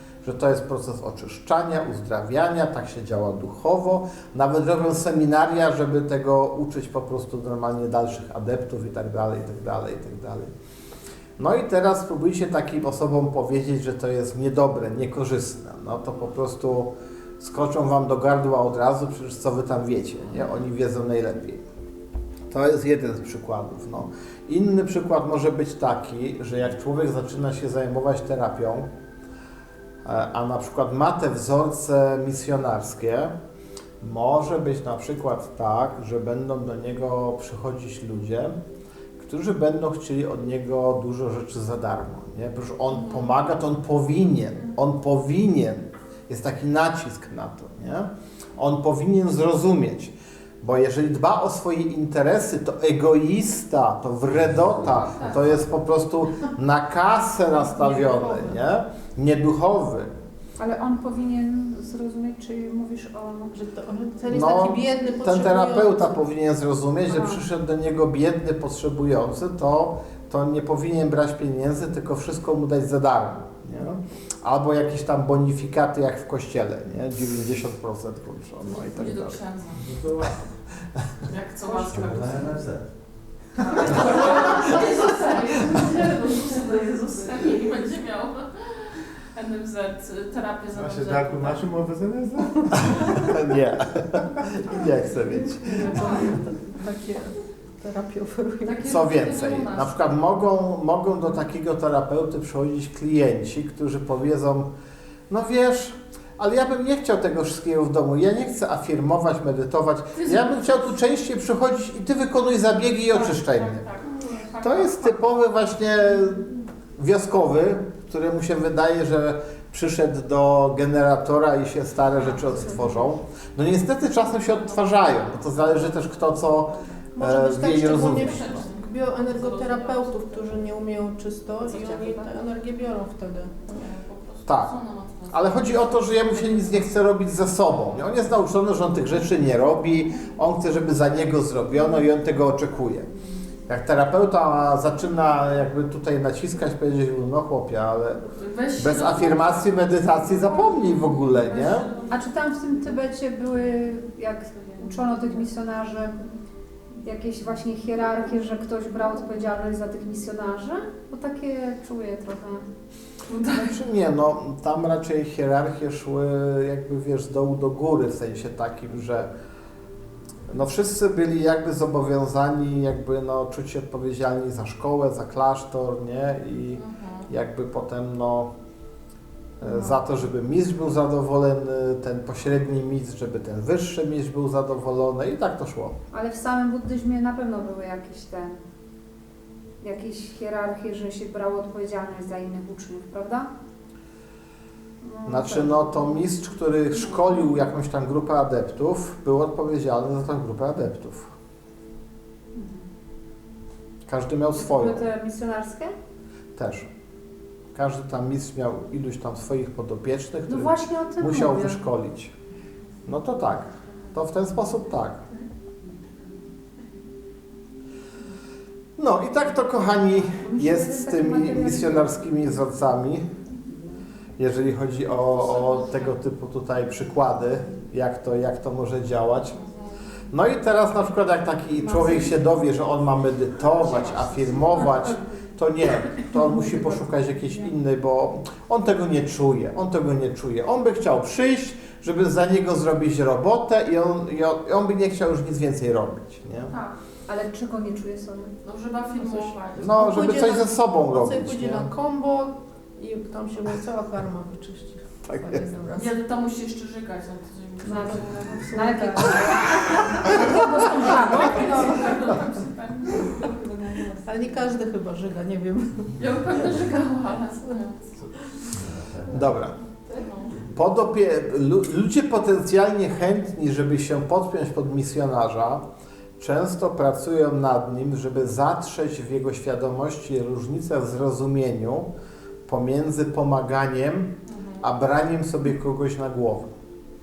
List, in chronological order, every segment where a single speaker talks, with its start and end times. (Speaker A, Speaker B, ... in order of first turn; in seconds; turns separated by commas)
Speaker A: 0.2-10.5, Speaker A: 11.4-21.6, Speaker A: 22.5-28.9, Speaker A: 30.1-33.3, Speaker A: 34.0-38.6, Speaker A: 39.2-60.1, Speaker B: 42.9-43.3, Speaker B: 54.9-55.6, Speaker C: 57.7-58.6, Speaker D: 60.6-63.5, Speaker C: 63.5-66.2, Speaker A: 64.3-79.4, Speaker D: 67.1-67.4, Speaker B: 78.7-80.0, Speaker E: 80.0-80.3, Speaker B: 81.3-82.7, Speaker E: 81.8-82.8, Speaker B: 83.6-91.7, Speaker E: 83.8-84.3, Speaker E: 90.7-93.3, Speaker A: 93.2-95.8, Speaker C: 95.6-98.9, Speaker B: 95.8-96.3, Speaker B: 98.7-100.0, Speaker A: 98.8-104.7, Speaker A: 105.3-113.8, Speaker B: 110.2-110.7, Speaker B: 113.1-115.2, Speaker A: 114.6-128.7, Speaker B: 122.2-122.7, Speaker B: 124.3-125.7, Speaker C: 127.2-133.8, Speaker B: 128.0-130.4, Speaker B: 131.7-132.3, Speaker B: 133.7-136.9, Speaker A: 134.5-134.7, Speaker A: 135.3-143.1, Speaker A: 143.7-148.2, Speaker B: 148.3-152.3, Speaker A: 148.8-151.9, Speaker D: 152.1-156.2, Speaker D: 157.0-162.7, Speaker B: 163.3-163.7, Speaker A: 163.5-169.3, Speaker A: 170.5-178.5, Speaker B: 176.8-177.3, Speaker A: 179.6-186.0, Speaker D: 179.7-179.9, Speaker D: 186.1-188.6, Speaker D: 189.8-193.5, Speaker D: 195.0-196.2, Speaker A: 195.3-201.3, Speaker D: 202.6-202.8, Speaker A: 204.1-205.1, Speaker D: 204.5-205.9, Speaker A: 206.6-206.9, Speaker A: 207.7-212.3, Speaker D: 210.5-211.8, Speaker A: 213.1-215.2, Speaker A: 219.0-223.3, Speaker D: 220.3-222.1, Speaker A: 224.4-229.6, Speaker B: 225.3-226.2, Speaker B: 229.5-230.0, Speaker A: 230.3-246.7, Speaker D: 231.8-232.3, Speaker B: 233.6-235.2, Speaker B: 246.7-247.0, Speaker D: 247.3-248.5, Speaker B: 248.6-250.0, Speaker C: 249.1-256.2, Speaker A: 249.8-251.9, Speaker A: 255.2-255.7, Speaker B: 255.9-258.7, Speaker D: 257.8-261.8, Speaker C: 257.9-259.3, Speaker B: 260.5-264.1, Speaker C: 261.1-262.4, Speaker C: 264.2-266.2, Speaker B: 266.2-268.1, Speaker A: 269.3-269.8, Speaker B: 270.1-270.6, Speaker A: 270.7-275.8, Speaker A: 276.4-282.1, Speaker A: 282.7-286.7, Speaker B: 284.5-284.8